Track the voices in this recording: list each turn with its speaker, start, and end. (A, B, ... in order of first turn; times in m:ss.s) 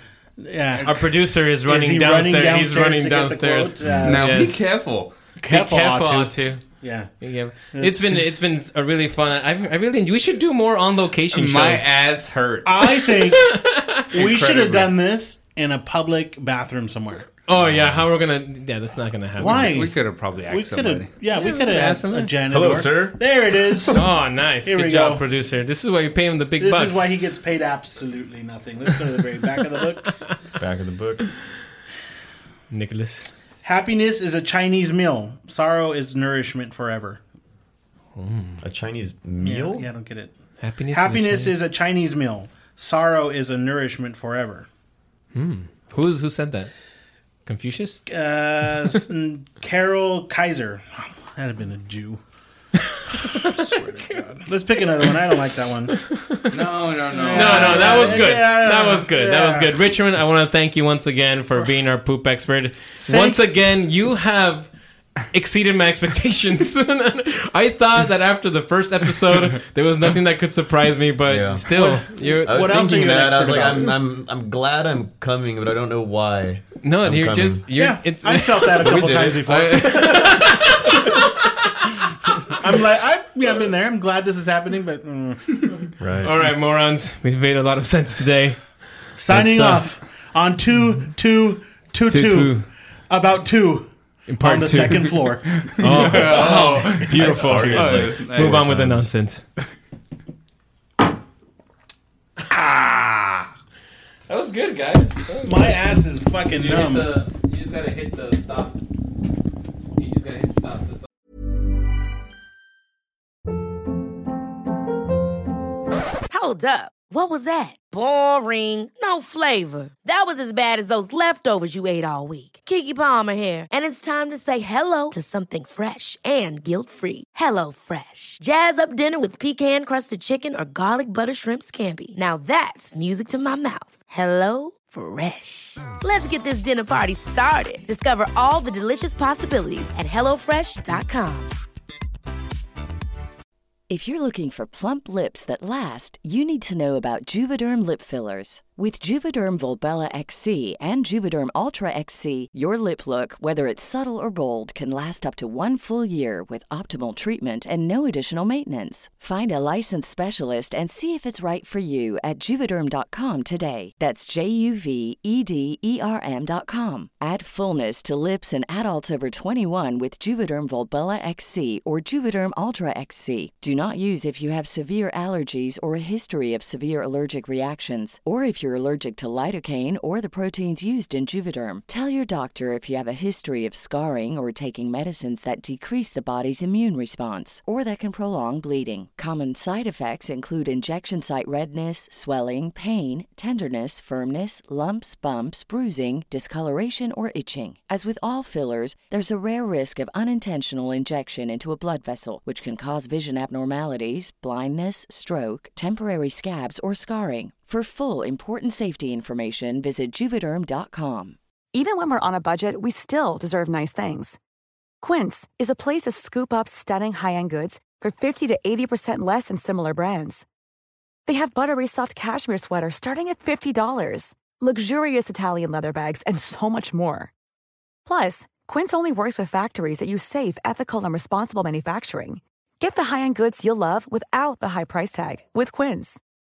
0:00.4-0:04.3 A
0:00.8-0:04.6 B
0:04.0-0:05.1 C
0:05.4-0:07.1 A
0:05.5-0:06.6 B
0:07.2-0:11.9 B
0:07.7-0:08.2 A
0:11.3-0:13.0 C
0:12.6-0:13.6 A
0:13.2-0:14.0 B
0:14.1-0:17.3 A
0:14.1-0:14.9 C
0:17.5-0:19.8 B
0:19.4-0:24.1 A
0:19.4-0:21.1 C
0:21.3-0:22.3 B
0:22.5-0:23.1 D
0:23.9-0:27.2 B
0:24.6-0:25.2 A
0:26.6-0:30.0 A
0:30.6-0:31.3 D
0:32.7-0:33.3 B
0:33.6-0:37.2 A
0:38.2-0:38.6 B
0:38.6-0:39.9 D
0:39.4-0:40.3 A
0:40.6-0:41.6 B
0:40.9-0:44.7 A
0:45.3-0:46.7 B
0:47.4-0:48.0 B
0:48.1-0:52.2 A
0:52.9-0:54.2 B
0:53.3-0:55.9 A
0:55.9-0:56.5 B
0:56.5-0:58.4 C
0:57.1-0:59.7 A
0:57.3-1:04.7 B
1:03.0-1:03.4 A
1:05.3-1:12.8 B
1:11.3-1:11.7 D
1:11.7-1:14.0 A
1:12.4-1:17.6 D
1:16.8-1:21.9 B
1:17.7-1:21.0 A
1:18.8-1:19.7 D
1:22.5-1:25.6 A
1:26.0-1:26.3 D
1:26.2-1:28.6 B
1:29.2-1:32.6 A
1:29.3-1:29.8 B
1:32.1-1:32.7 B
1:33.1-1:38.2 A
1:34.3-1:39.4 B
1:35.6-1:39.1 C
1:44.3-1:45.8 B
1:45.4-1:47.1 A
1:46.6-1:48.8 B
1:50.0-1:51.0 B
1:56.3-2:21.6 E
2:23.9-3:31.4 F
3:31.7-3:34.4 G
3:35.0-3:40.4 G
3:41.2-3:47.3 G
3:48.0-3:56.2 G